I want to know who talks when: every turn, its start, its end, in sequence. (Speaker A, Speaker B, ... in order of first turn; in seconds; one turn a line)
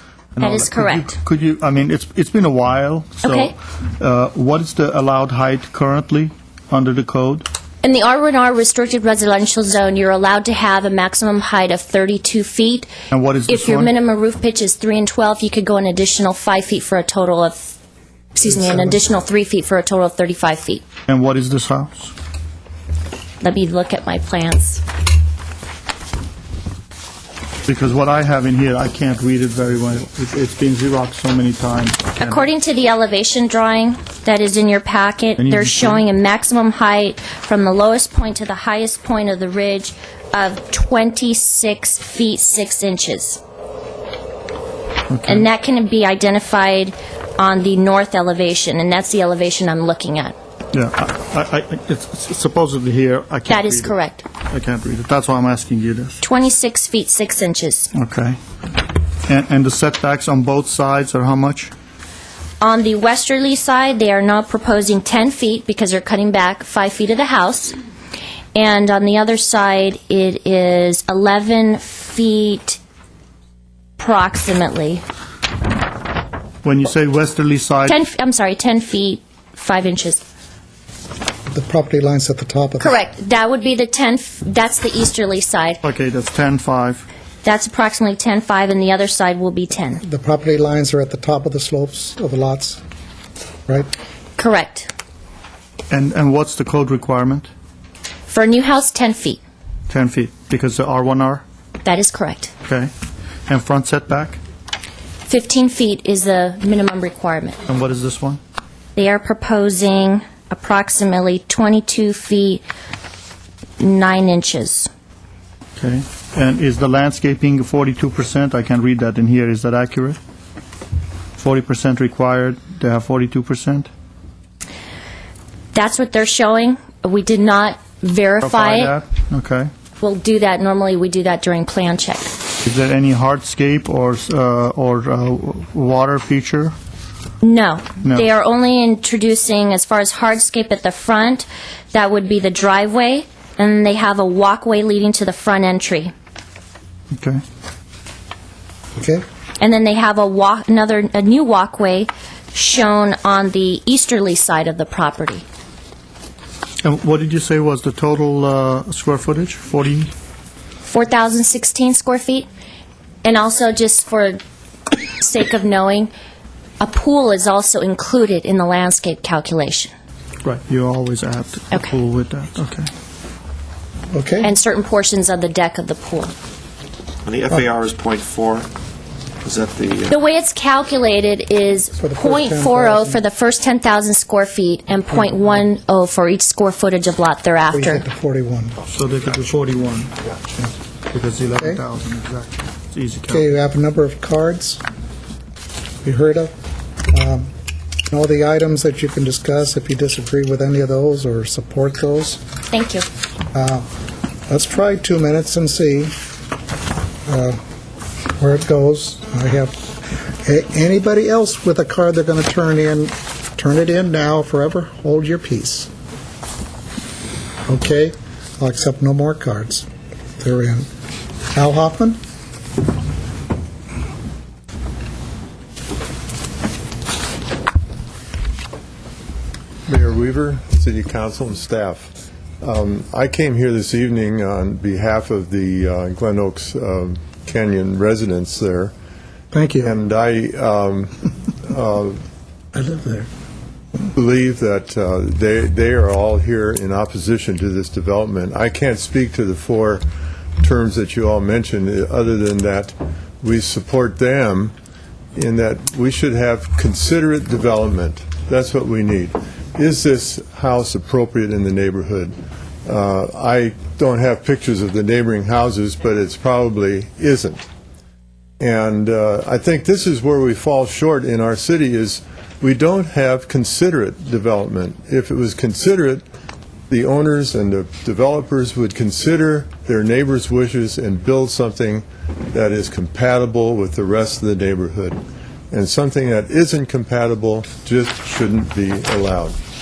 Speaker A: 0.3-7.5
Speaker B: 0.4-1.1
Speaker B: 3.2-3.5
Speaker B: 7.8-12.9
Speaker A: 13.1-13.9
Speaker B: 13.5-17.7
Speaker B: 18.3-20.8
Speaker A: 21.1-22.1
Speaker B: 23.4-24.8
Speaker A: 27.6-32.4
Speaker B: 32.2-43.4
Speaker A: 35.4-36.0
Speaker A: 45.1-45.5
Speaker B: 45.2-50.4
Speaker A: 50.7-56.2
Speaker B: 53.5-54.2
Speaker B: 56.2-57.9
Speaker A: 57.9-58.4
Speaker A: 59.2-61.7
Speaker B: 62.6-67.8
Speaker B: 68.5-72.8
Speaker B: 74.0-75.0
Speaker A: 76.6-78.0
Speaker B: 77.9-80.2
Speaker C: 81.5-83.0
Speaker B: 82.8-85.8
Speaker A: 85.8-87.0
Speaker B: 87.4-90.0
Speaker C: 90.0-92.8
Speaker B: 94.4-94.9
Speaker A: 95.9-97.5
Speaker B: 98.3-99.4
Speaker A: 99.9-101.4
Speaker B: 101.8-102.5
Speaker A: 102.6-102.9
Speaker A: 103.5-104.4
Speaker B: 105.3-107.6
Speaker A: 107.7-108.4
Speaker B: 109.0-112.6
Speaker B: 113.8-114.9
Speaker A: 115.8-120.2
Speaker A: 121.4-123.9
Speaker B: 125.7-128.9
Speaker A: 128.4-129.7
Speaker B: 130.0-132.3
Speaker A: 132.6-136.8
Speaker B: 137.4-146.1
Speaker A: 138.0-138.3
Speaker A: 147.1-147.4
Speaker C: 148.9-149.2
Speaker B: 149.6-155.4
Speaker A: 156.8-160.1
Speaker B: 160.8-162.5
Speaker B: 163.2-164.4
Speaker B: 165.2-166.1
Speaker B: 166.8-169.9
Speaker A: 170.4-172.9
Speaker C: 174.1-174.5
Speaker B: 174.4-176.3
Speaker D: 177.2-178.7
Speaker D: 179.4-180.2
Speaker B: 180.1-188.1
Speaker C: 182.0-183.2
Speaker C: 187.7-188.8
Speaker A: 188.9-190.2
Speaker A: 191.1-193.6
Speaker C: 191.6-191.8
Speaker C: 193.3-194.8
Speaker C: 196.0-196.5
Speaker C: 197.1-197.5
Speaker C: 198.1-202.4
Speaker B: 202.7-203.1
Speaker C: 203.5-203.9
Speaker C: 204.5-206.1
Speaker C: 207.2-207.6
Speaker C: 208.4-209.8
Speaker C: 210.4-215.9
Speaker C: 217.7-219.9
Speaker C: 220.4-220.9
Speaker C: 221.5-222.2
Speaker E: 229.8-238.9
Speaker C: 239.5-239.9
Speaker E: 239.8-242.2
Speaker C: 242.7-243.3
Speaker E: 244.1-250.0
Speaker E: 250.6-254.7
Speaker E: 255.3-267.6
Speaker E: 268.6-276.2
Speaker E: 276.9-285.2
Speaker E: 285.7-289.6